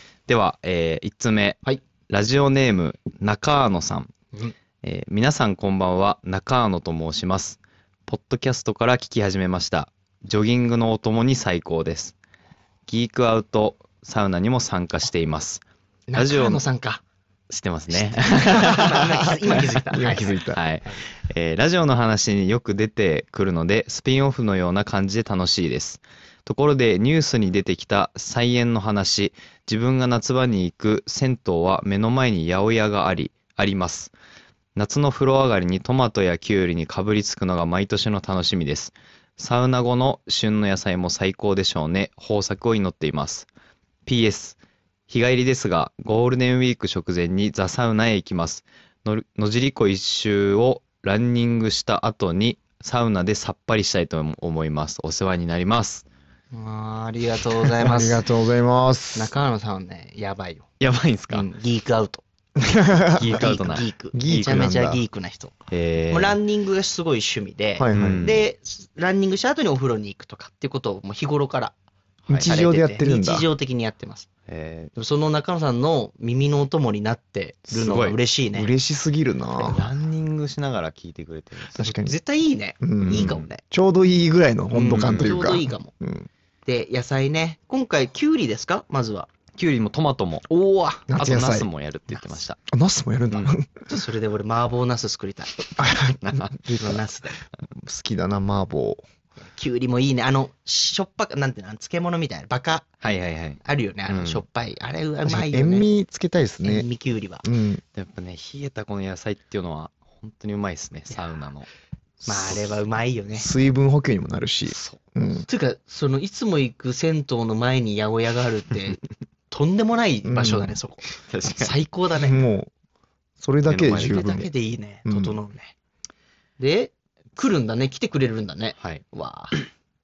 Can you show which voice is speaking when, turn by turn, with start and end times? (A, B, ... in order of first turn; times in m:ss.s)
0:00.3-0:04.1 A
0:04.8-0:12.1 A
0:12.9-0:15.6 A
0:16.1-0:17.0 B
0:16.1-0:16.6 A
0:17.5-0:34.1 A
0:17.9-0:20.4 B
0:19.9-0:20.6 C
0:34.8-0:43.5 A
0:44.0-0:44.6 A
0:45.1-0:56.0 A
0:56.5-0:58.2 B
0:57.7-0:59.3 C
0:59.1-1:00.6 B
1:00.8-1:01.5 A
1:01.3-1:02.2 B
1:02.6-1:03.4 C
1:03.0-1:05.5 B
1:03.1-1:04.6 A
1:04.1-1:05.0 C
1:05.7-1:06.4 A
1:06.1-1:11.7 B
1:07.8-1:08.4 C
1:07.9-1:08.4 A
1:12.3-1:13.4 C
1:12.4-1:14.3 B
1:14.5-1:14.9 A
1:14.9-1:18.7 B
1:17.7-1:18.2 A
1:18.5-1:19.8 C
1:19.6-1:19.8 B
1:19.6-1:21.9 A
1:21.7-1:22.1 C
1:21.8-1:23.6 B
1:22.8-1:26.3 C
1:23.0-1:23.5 A
1:24.7-1:25.9 B
1:24.9-1:25.5 A
1:26.6-1:29.3 B
1:29.5-1:30.5 A
1:30.5-1:31.2 B
1:31.1-1:31.7 C
1:31.1-1:32.6 A
1:32.7-1:33.7 C
1:33.9-1:35.6 B
1:35.8-1:37.0 C
1:36.2-1:36.6 A
1:36.7-1:37.4 B
1:37.7-1:39.0 C
1:39.5-1:43.0 B
1:43.0-1:44.4 A
1:43.6-1:45.9 B
1:45.2-1:46.9 C
1:46.6-1:47.4 B
1:47.4-1:47.8 C
1:47.9-1:51.7 A
1:52.2-1:53.5 B
1:52.3-1:52.6 A
1:53.4-1:55.4 C
1:54.7-1:55.0 A
1:55.5-2:02.4 B
2:00.2-2:00.7 C
2:01.3-2:01.7 A
2:02.2-2:02.7 C
2:03.4-2:04.5 C
2:03.7-2:04.4 A
2:04.0-2:05.7 B
2:05.0-2:05.4 C
2:06.6-2:09.5 B